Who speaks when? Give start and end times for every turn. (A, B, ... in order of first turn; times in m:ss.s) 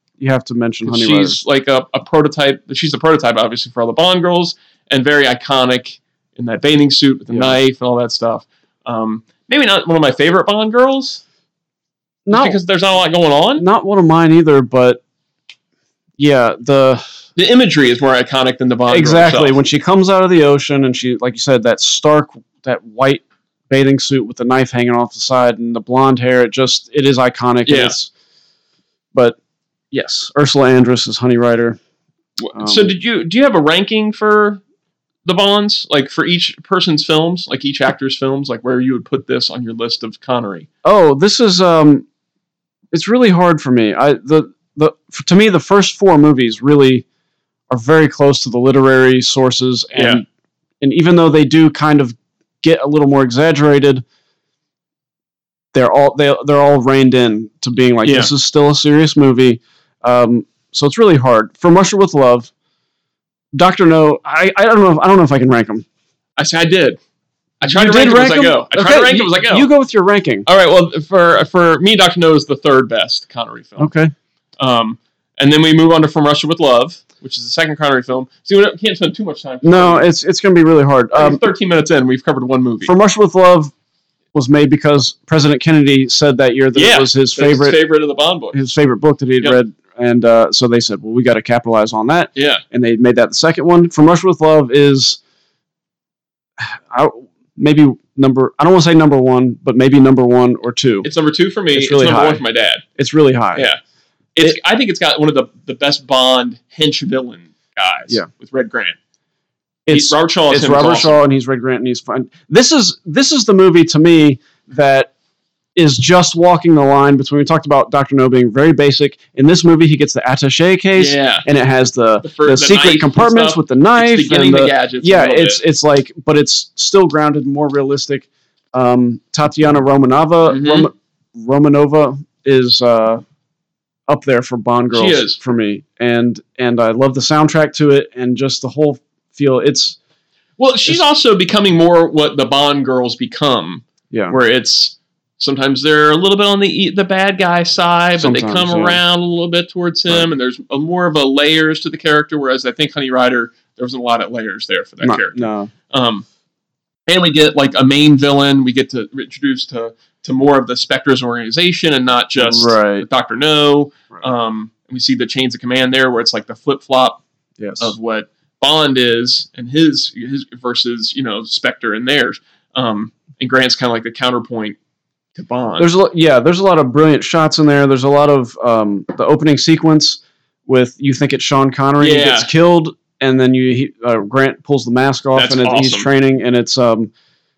0:00.2-0:01.4 A
0:00.8-0:11.2 B
0:07.3-0:07.6 A
0:12.2-0:12.6 A
0:12.3-0:13.6 B
0:13.6-0:15.0 A
0:16.2-0:17.0 A
0:17.4-0:19.6 B
0:18.9-0:28.1 A
0:27.7-0:28.0 B
0:29.9-0:31.8 A
0:32.4-0:34.6 B
0:32.6-0:32.9 A
0:35.2-0:40.7 B
0:40.8-0:42.1 A
0:42.9-0:47.0 A
0:47.7-0:50.2 A
0:50.0-0:50.2 B
0:50.8-0:54.0 A
0:55.7-1:02.5 A
0:58.0-0:58.3 B
1:03.5-1:05.9 A
1:06.4-1:07.0 B
1:07.6-1:09.7 B
1:07.6-1:10.5 A
1:10.5-1:13.9 B
1:13.8-1:14.1 A
1:14.6-1:20.1 B
1:19.6-1:21.4 A
1:21.1-1:22.9 B
1:22.8-1:23.7 A
1:24.3-1:27.8 A
1:26.7-1:28.6 B
1:28.5-1:35.2 A
1:32.4-1:32.6 B
1:36.6-1:41.1 A
1:41.0-1:42.8 B
1:41.7-1:42.4 A
1:43.0-1:43.7 A
1:44.4-1:49.0 B
1:49.9-1:55.1 A
1:49.9-1:51.2 B
1:55.8-2:13.2 A
2:01.0-2:01.5 B
2:02.2-2:05.6 B
2:10.5-2:10.9 B
2:14.1-2:20.0 A
2:14.9-2:15.4 B
2:20.6-2:36.2 B
2:24.1-2:24.4 A
2:28.2-2:29.0 A
2:35.0-2:35.7 A
2:37.1-2:47.2 B
2:42.4-2:43.1 A
2:47.6-2:47.9 A
2:47.8-2:54.8 B
2:55.4-2:55.9 B
2:55.8-3:07.1 A
3:02.0-3:02.5 B
3:05.4-3:06.1 B